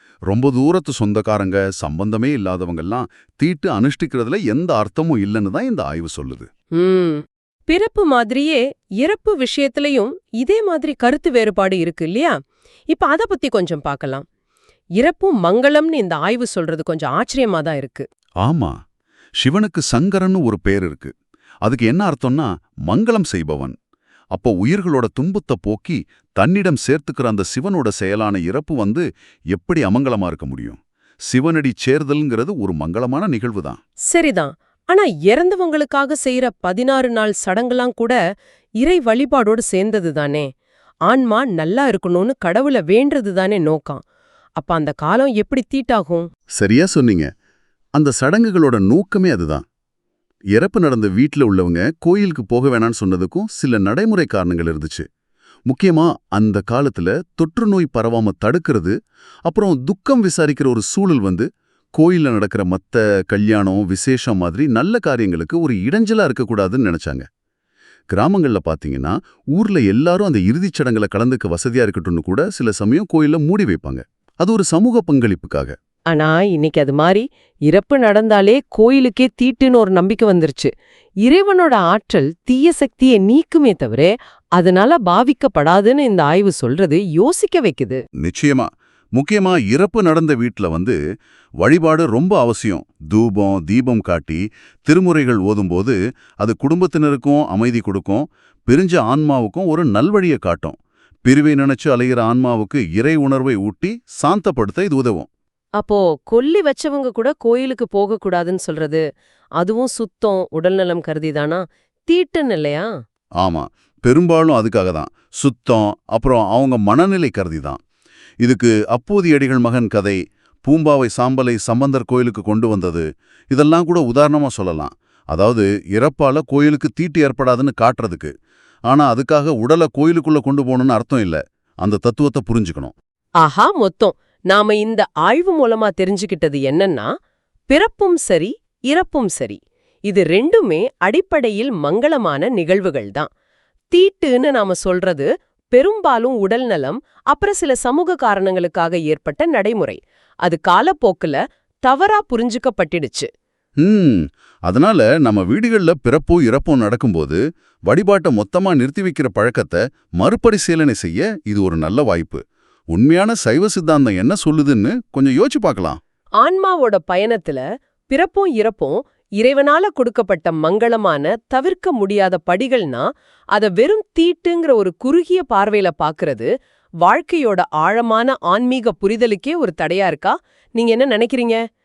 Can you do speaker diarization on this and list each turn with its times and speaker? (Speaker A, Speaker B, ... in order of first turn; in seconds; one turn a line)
Speaker A: 0.3-6.5
Speaker B: 6.8-12.4
Speaker B: 12.9-14.2
Speaker B: 15.0-18.0
Speaker A: 18.4-18.7
Speaker A: 19.4-21.1
Speaker A: 21.6-23.7
Speaker A: 24.3-33.8
Speaker B: 34.1-38.2
Speaker B: 38.8-40.5
Speaker B: 41.1-44.0
Speaker B: 44.6-46.3
Speaker A: 46.5-47.3
Speaker A: 48.0-49.6
Speaker A: 50.5-55.0
Speaker A: 55.7-58.9
Speaker A: 59.5-67.2
Speaker A: 68.1-75.7
Speaker B: 76.1-80.7
Speaker B: 81.2-88.0
Speaker A: 88.2-91.0
Speaker A: 91.6-105.3
Speaker B: 105.8-109.0
Speaker B: 109.6-112.9
Speaker A: 113.4-117.8
Speaker A: 118.4-128.3
Speaker A: 128.9-132.9
Speaker B: 133.4-137.1
Speaker B: 137.7-143.3
Speaker B: 143.9-153.3
Speaker A: 153.8-162.4
Speaker A: 162.9-166.0
Speaker B: 166.4-176.5
Speaker B: 177.0-181.6